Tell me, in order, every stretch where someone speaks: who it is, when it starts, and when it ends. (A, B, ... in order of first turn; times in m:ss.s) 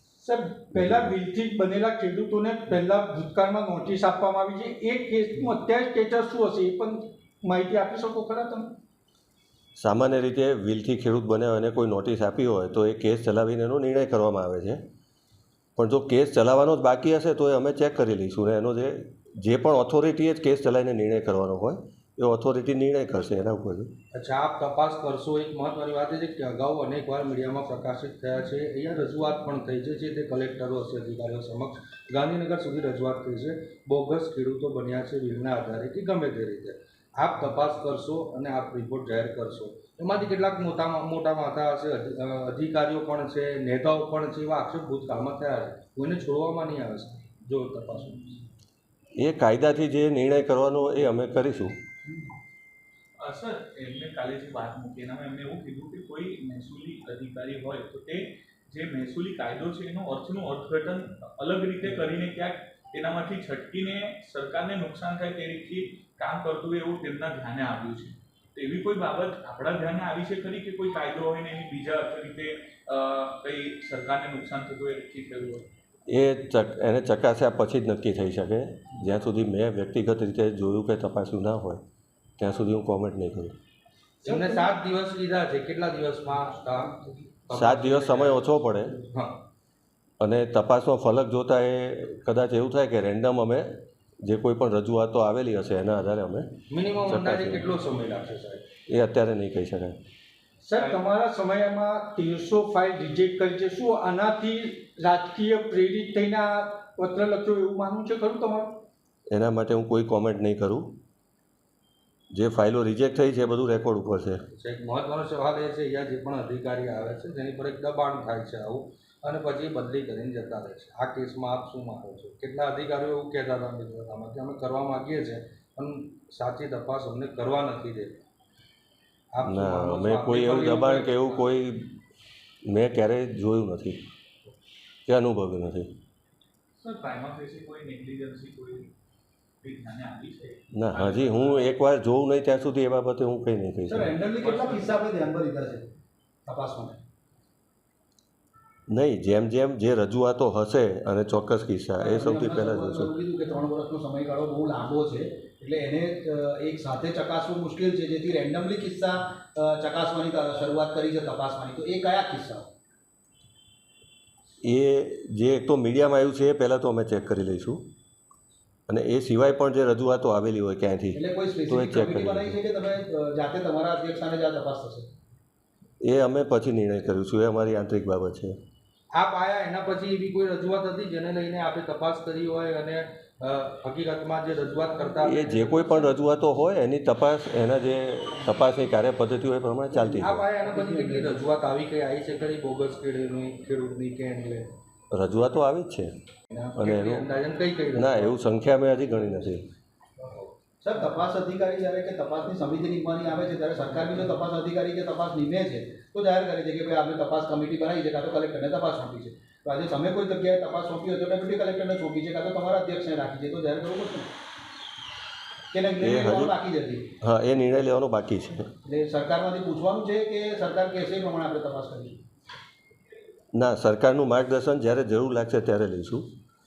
0:00.2-0:08.7 A
0:00.7-0:01.1 B
0:09.8-0:14.8 B
0:15.8-0:23.9 B
0:24.1-0:48.4 C
0:49.2-0:51.8 B
0:53.2-1:15.7 D
1:16.1-1:21.8 B
1:22.4-1:23.5 B
1:24.2-1:28.4 C
1:27.5-1:28.9 B
1:29.0-1:29.4 C
1:30.2-1:36.5 B
1:36.7-1:38.6 C
1:37.0-1:37.7 B
1:38.9-1:40.0 B
1:40.6-1:48.8 A
1:49.3-1:50.9 B
1:52.3-1:54.4 B
1:54.6-2:08.2 C
2:09.3-2:11.4 C
2:09.4-2:12.0 B
2:12.7-2:14.0 B
2:15.0-2:15.9 B
2:16.8-2:18.9 D
2:19.6-2:21.7 D
2:20.7-2:24.1 B
2:23.9-2:25.8 E
2:24.4-2:25.0 D
2:26.4-2:27.0 E
2:28.9-2:33.1 B
2:32.0-2:42.7 E
2:44.6-2:47.8 B
2:48.9-2:52.5 B
2:51.1-2:55.1 E
2:56.0-2:58.6 B
2:59.1-3:06.0 C
3:05.2-3:10.4 B
3:09.9-3:14.7 C
3:10.2-3:11.4 E
3:15.1-3:16.1 B
3:16.5-3:18.4 C
3:16.8-3:17.2 B
3:17.9-3:19.7 B
3:20.8-3:34.3 E
3:35.7-3:37.1 E
3:36.0-3:36.5 B
3:37.2-3:38.7 B
3:38.8-3:42.2 E
3:43.5-3:46.2 B